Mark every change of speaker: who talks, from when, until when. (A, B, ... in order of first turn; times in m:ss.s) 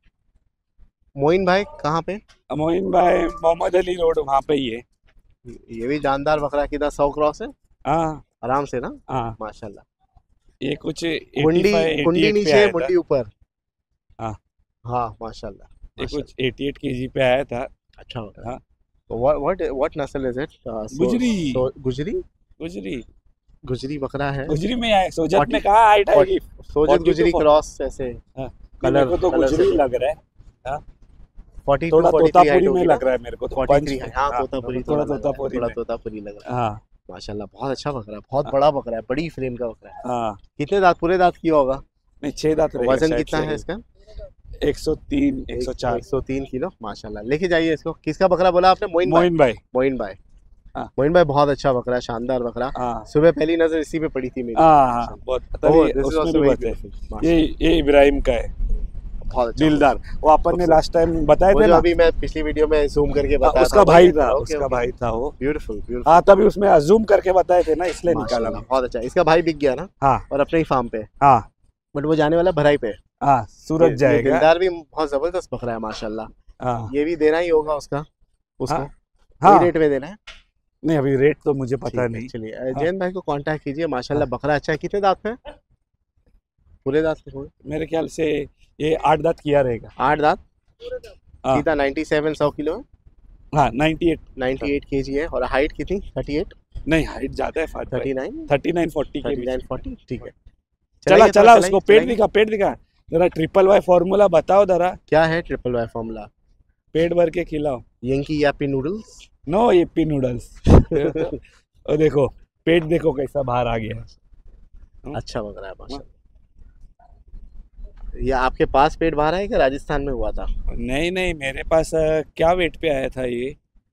0:01.2-0:02.2 A
0:02.5-0:04.8 B
0:05.4-0:07.5 A
0:07.8-0:08.2 B
0:08.4-0:09.8 A
0:09.1-0:09.4 B
0:10.6-0:12.9 B
0:11.4-0:13.3 A
0:14.8-0:16.3 A
0:16.0-0:17.7 B
0:18.0-0:18.5 A
0:19.1-0:22.2 A
0:20.9-0:21.6 B
0:22.6-0:23.0 B
0:23.6-0:24.6 A
0:24.5-0:27.4 B
0:25.3-0:28.2 A
0:28.4-0:30.8 B
0:28.8-0:29.8 A
0:31.6-0:36.4 A
0:31.9-0:35.8 B
0:36.4-0:36.8 B
0:37.1-0:40.0 A
0:40.0-0:40.4 B
0:40.6-0:41.8 A
0:42.2-0:43.6 B
0:42.8-0:43.8 A
0:44.6-0:46.0 B
0:45.5-0:50.2 A
0:49.0-0:49.6 B
0:51.0-0:57.3 A
0:52.7-0:53.1 B
0:54.5-0:58.5 B
0:59.2-0:59.9 A
0:59.6-1:01.8 B
1:00.5-1:00.8 A
1:01.5-1:04.8 A
1:03.4-1:05.3 B
1:05.4-1:06.2 A
1:06.0-1:08.6 B
1:08.1-1:11.1 A
1:11.2-1:11.5 B
1:11.9-1:13.0 A
1:13.2-1:14.5 B
1:13.8-1:16.3 A
1:16.6-1:16.9 B
1:16.9-1:18.0 A
1:18.6-1:18.9 A
1:19.4-1:19.7 B
1:19.4-1:20.2 A
1:20.8-1:22.9 B
1:21.8-1:25.4 A
1:26.8-1:27.5 A
1:27.6-1:29.9 B
1:30.0-1:30.4 A
1:31.5-1:32.8 A
1:33.5-1:34.3 B
1:34.4-1:36.5 A
1:36.9-1:39.6 B
1:37.9-1:38.5 A
1:39.2-1:40.3 A
1:41.0-1:42.2 A
1:41.1-1:45.0 B
1:45.1-1:46.3 A
1:46.9-1:47.8 B
1:48.0-1:49.2 A
1:49.5-1:54.1 B
1:50.9-1:51.4 A
1:55.1-1:56.1 A
1:58.2-2:00.5 A
2:00.7-2:03.6 B